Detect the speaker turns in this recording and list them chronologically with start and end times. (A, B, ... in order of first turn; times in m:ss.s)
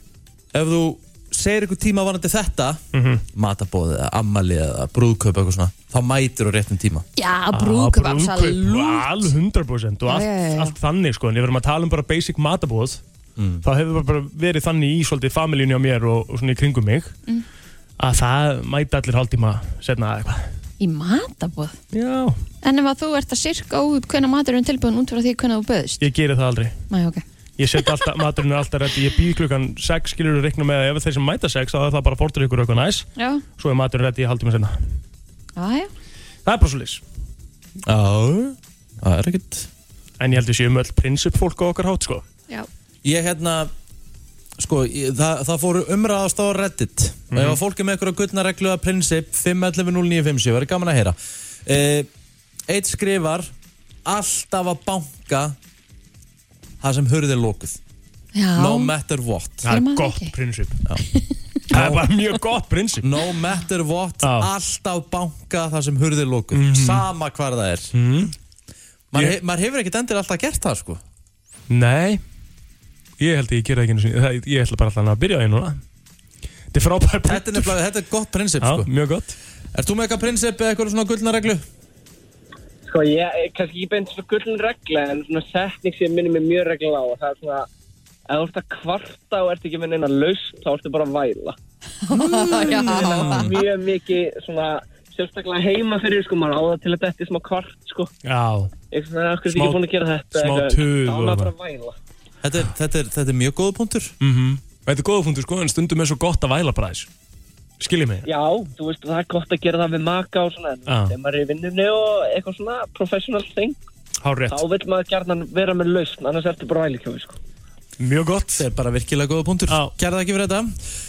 0:00.5-0:07.1 A
0:02.9-0:03.2 B
0:07.2-0:09.3 C
0:07.5-0:13.0 B
0:10.1-0:10.8 C
0:13.4-0:13.6 A
0:13.6-0:17.1 B
0:18.0-0:20.5 B
0:20.8-0:21.8 C
0:21.9-0:22.4 B
0:22.6-0:26.0 C
0:26.0-0:26.8 B
0:26.9-0:27.2 C
0:27.6-0:34.8 B
0:33.2-0:33.4 C
0:35.6-0:35.9 C
0:36.5-0:37.0 B
0:37.8-0:39.7 A
0:40.2-0:42.2 B
0:43.0-0:43.7 A
0:44.6-0:52.1 A
0:47.3-0:47.6 B
0:52.7-0:53.5 A
0:54.0-0:55.6 A
0:56.8-0:57.8 A
0:58.4-0:58.9 C
0:58.6-0:59.7 A
0:59.6-1:00.8 B
0:59.6-1:00.3 C
1:01.7-1:03.1 B
1:01.7-1:02.1 A
1:03.0-1:08.1 A
1:04.2-1:04.5 B
1:06.5-1:07.1 B
1:07.9-1:08.3 B
1:09.1-1:11.0 A
1:11.7-1:12.2 B
1:13.2-1:15.8 B
1:16.7-1:17.8 B
1:17.2-1:18.9 A
1:18.6-1:19.4 B
1:19.7-1:21.6 A
1:22.8-1:27.7 D
1:28.3-1:31.6 D
1:32.1-1:33.5 C
1:32.1-1:33.6 A
1:32.8-1:38.1 D
1:38.2-1:38.7 B
1:38.9-1:42.0 D
1:39.5-1:41.5 B
1:42.4-1:44.1 A
1:44.2-1:47.1 B
1:47.8-1:48.3 B
1:48.2-1:53.8 D
1:50.9-1:51.2 B
1:54.2-1:54.6 B
1:54.5-1:57.4 D
1:58.0-1:58.7 B
1:58.6-2:00.8 A